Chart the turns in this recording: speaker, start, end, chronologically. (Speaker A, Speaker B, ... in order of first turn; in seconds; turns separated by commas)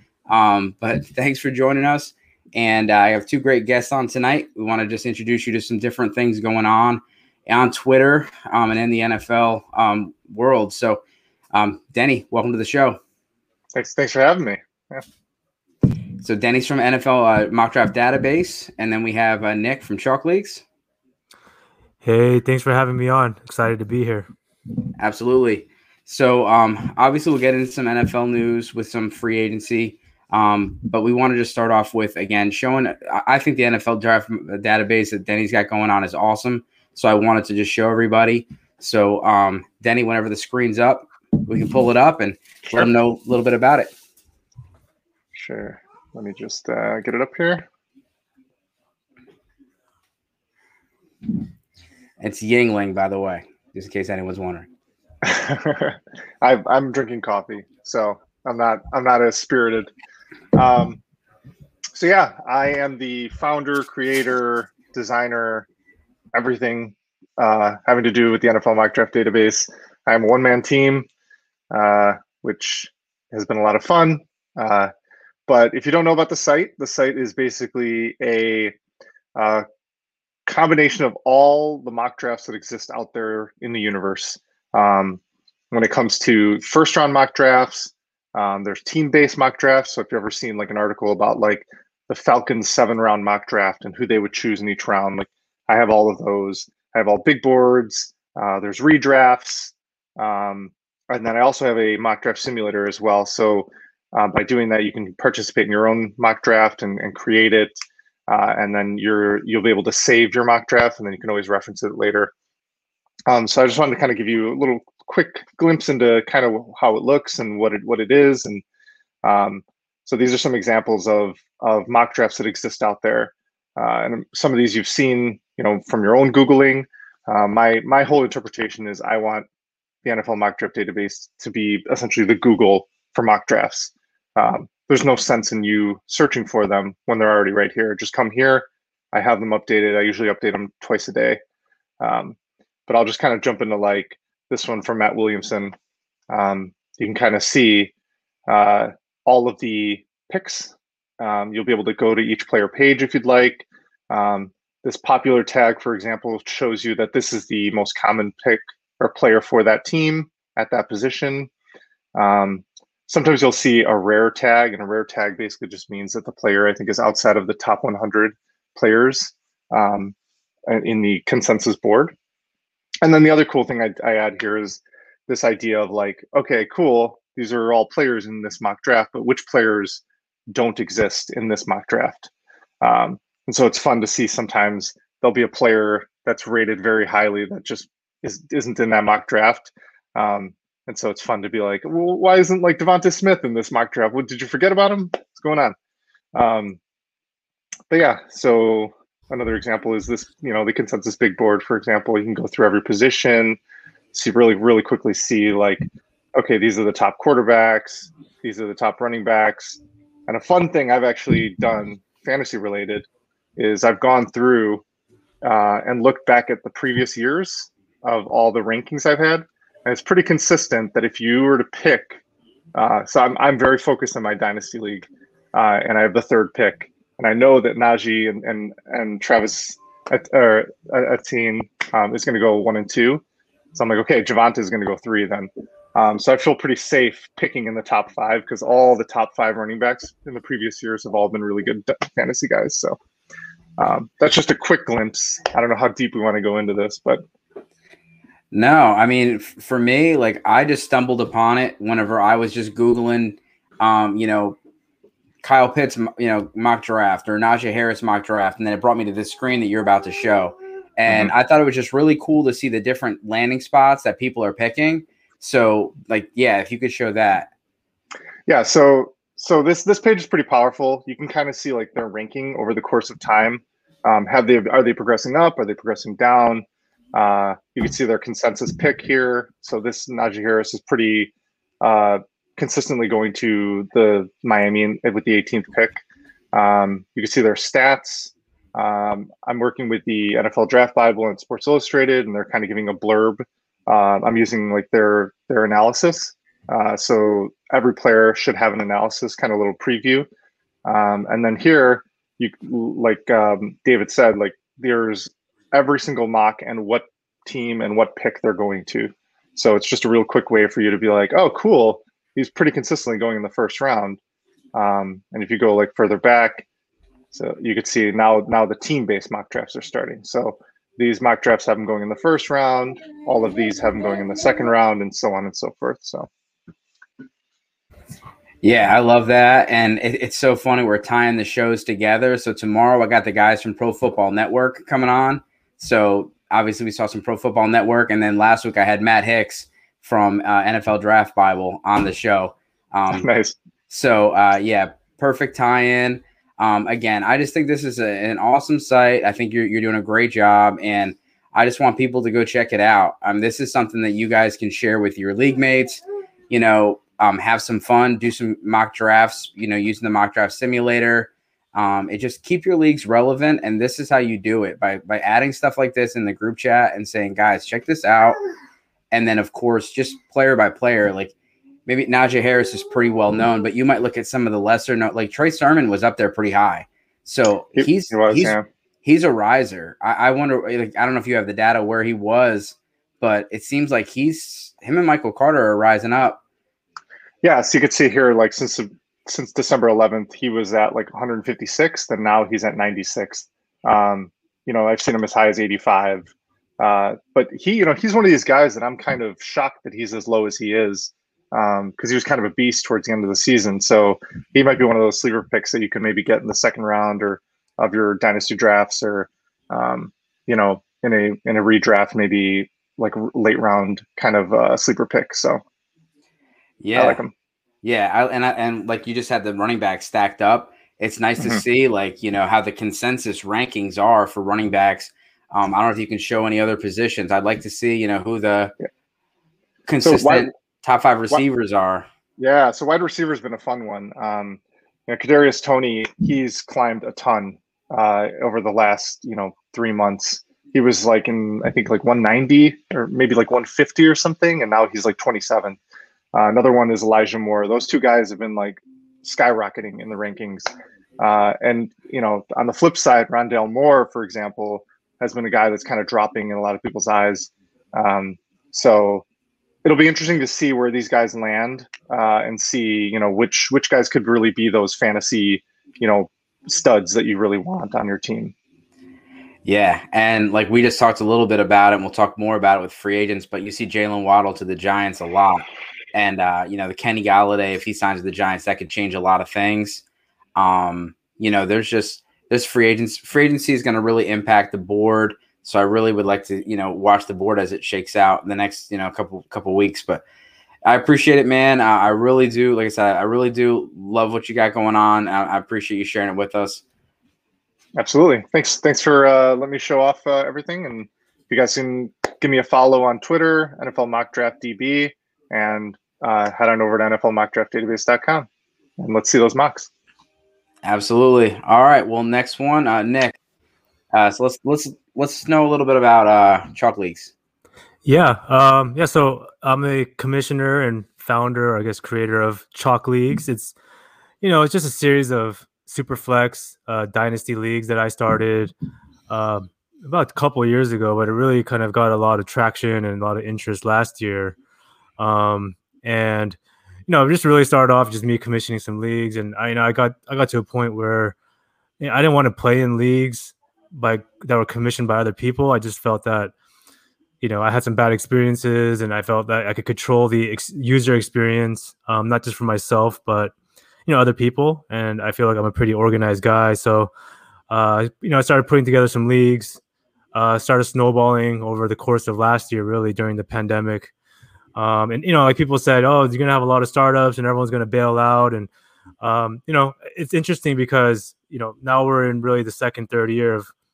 Speaker A: 0.3-11.0, Speaker A: 11.5-13.0, Speaker B: 13.7-15.0, Speaker A: 16.2-20.6, Speaker C: 22.0-24.3, Speaker A: 25.0-43.9, Speaker B: 45.3-47.6, Speaker A: 52.2-54.7, Speaker B: 55.2-59.9, Speaker B: 60.5-61.0, Speaker B: 61.9-65.7, Speaker B: 66.3-71.1, Speaker B: 71.7-74.9, Speaker B: 75.5-78.8, Speaker B: 79.3-79.6, Speaker B: 80.5-85.2, Speaker B: 85.7-112.3, Speaker B: 113.3-118.6, Speaker B: 119.2-129.5, Speaker B: 130.0-141.4, Speaker B: 142.0-142.3, Speaker B: 142.9-145.7, Speaker B: 146.3-147.9, Speaker B: 148.5-161.5, Speaker B: 162.1-170.1, Speaker B: 170.7-172.1, Speaker B: 173.0-182.3, Speaker B: 182.8-195.8, Speaker B: 196.3-196.8, Speaker B: 197.9-203.6, Speaker B: 204.1-214.8, Speaker B: 215.4-222.2, Speaker B: 222.7-233.2, Speaker B: 233.7-243.0, Speaker B: 243.8-247.2, Speaker A: 248.5-254.6, Speaker A: 255.4-267.5, Speaker B: 268.5-286.0, Speaker B: 286.5-300.3, Speaker B: 300.9-314.2, Speaker B: 314.7-316.6, Speaker B: 317.3-326.3, Speaker A: 328.6-343.3, Speaker B: 343.1-343.6, Speaker A: 343.9-368.4, Speaker A: 369.1-371.3, Speaker A: 371.9-386.4, Speaker B: 377.8-378.6, Speaker B: 387.4-415.6, Speaker A: 416.8-417.2, Speaker B: 416.9-417.3, Speaker A: 417.8-428.7, Speaker B: 421.4-421.6, Speaker A: 429.9-432.1, Speaker B: 430.0-430.5, Speaker B: 432.4-445.8, Speaker B: 446.3-459.2, Speaker B: 459.8-468.5, Speaker A: 469.6-480.0, Speaker A: 480.6-490.2, Speaker A: 490.9-496.8, Speaker B: 498.0-509.9, Speaker A: 510.8-513.4, Speaker A: 514.1-517.3, Speaker C: 518.0-523.7, Speaker C: 524.4-528.7, Speaker C: 529.3-534.5, Speaker C: 535.2-541.4, Speaker C: 542.0-546.5, Speaker C: 547.4-553.5, Speaker C: 554.0-557.1, Speaker C: 557.7-559.8, Speaker C: 560.3-564.1, Speaker C: 564.7-568.7, Speaker C: 569.2-573.7